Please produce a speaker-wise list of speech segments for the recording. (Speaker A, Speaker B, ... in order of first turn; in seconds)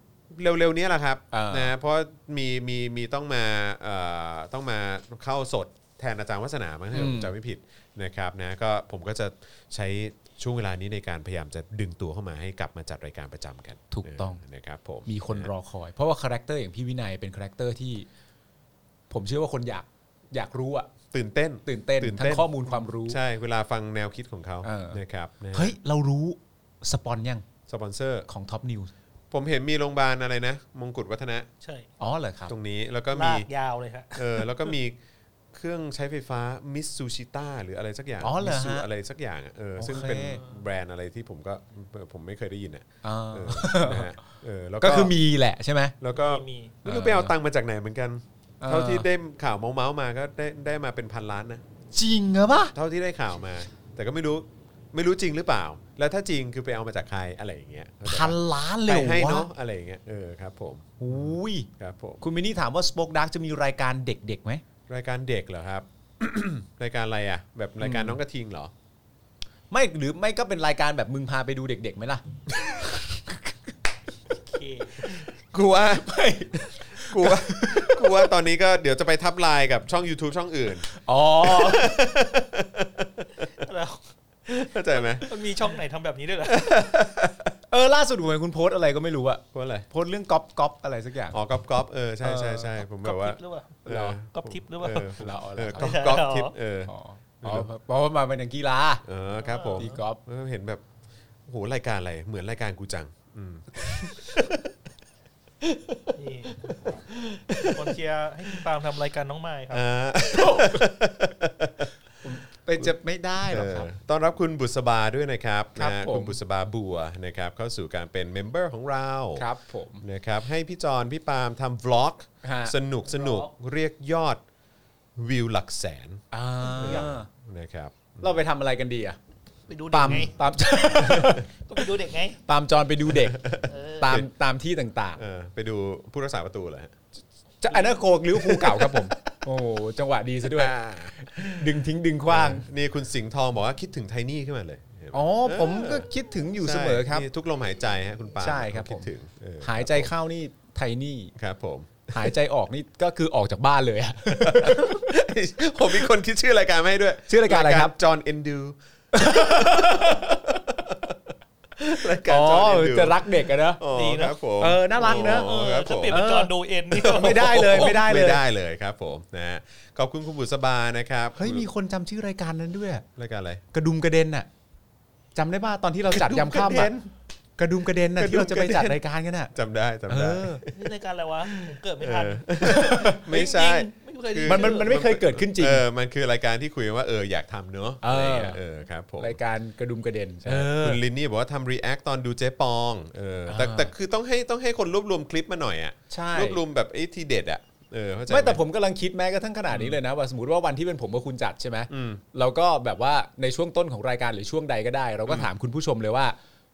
Speaker A: 0.3-15.5, 21.1-25.8, 27.7-28.3, 29.3-31.5, 32.5-33.5, 34.1-35.0, 35.5-45.1, 46.0-51.6, 52.7-62.2, 64.9-68.7, 75.4-80.9, 81.4-83.3, 84.5-85.3, 86.5-87.5, 89.5-89.9, 91.3-97.7, 99.1-100.8, 101.5-104.7, 105.6-106.0, 106.7-107.9, 109.7-111.9, 113.5-119.5, 120.0-124.4, 125.2-128.3, 131.1-131.4, 133.2-134.3, 135.2-137.0, 138.3-139.3, 140.4-141.8, 142.3-146.1, 146.6-150.1, 151.4-152.3, 154.3-161.0, 161.8-166.3, 167.0-171.7, 173.2-173.6, 176.1-176.9, 178.2-179.0, 179.5-180.9, 181.5-189.4, 190.4-198.6, 199.7-200.0, 201.9-202.2
Speaker B: 1.3-1.7, 6.9-7.3, 13.9-14.4, 15.1-18.1, 19.1-20.9, 21.6-23.2, 24.6-25.0, 25.5-27.4, 28.3-28.9, 32.0-32.5, 38.2-38.9, 39.8-40.4, 43.0-44.2, 44.8-46.0, 46.9-47.3, 48.6-49.1, 51.9-52.7, 58.1-59.5, 61.0-61.7, 62.2-64.6, 67.8-68.2, 69.7-72.2, 72.8-73.5, 76.0-78.3, 80.9-82.0, 87.7-91.4, 92.2-92.8, 93.9-94.2, 95.1-96.2, 96.9-99.0, 99.8-100.2, 110.3-110.9, 112.2-113.9, 115.8-116.4, 119.4-120.0, 122.4-123.5, 126.3-127.3, 128.2-129.2, 129.9-131.5, 132.5-133.4, 134.0-135.2, 137.6-142.7, 145.1-147.3, 148.4-149.1, 149.6-151.3, 152.1-155.1, 157.3-157.9, 159.1-160.4, 162.2-163.8, 164.6-165.5, 166.1-168.4, 171.4-173.1, 173.7-174.5, 175.3-179.5, 180.1-180.6, 182.6-183.2, 184.4-185.8, 188.0-188.6, 189.2-191.0, 193.5-193.9, 196.1-196.6, 198.3-206.4
Speaker C: 31.6-31.9, 33.1-34.7, 46.1-46.8, 74.4-75.3, 83.5-84.0, 85.2-86.7, 93.0-95.1, 95.8-96.5, 99.4-100.0, 106.2-106.8, 107.6-109.8, 129.7-132.4, 133.7-134.2, 163.9-164.4, 165.0-167.9, 180.7-184.9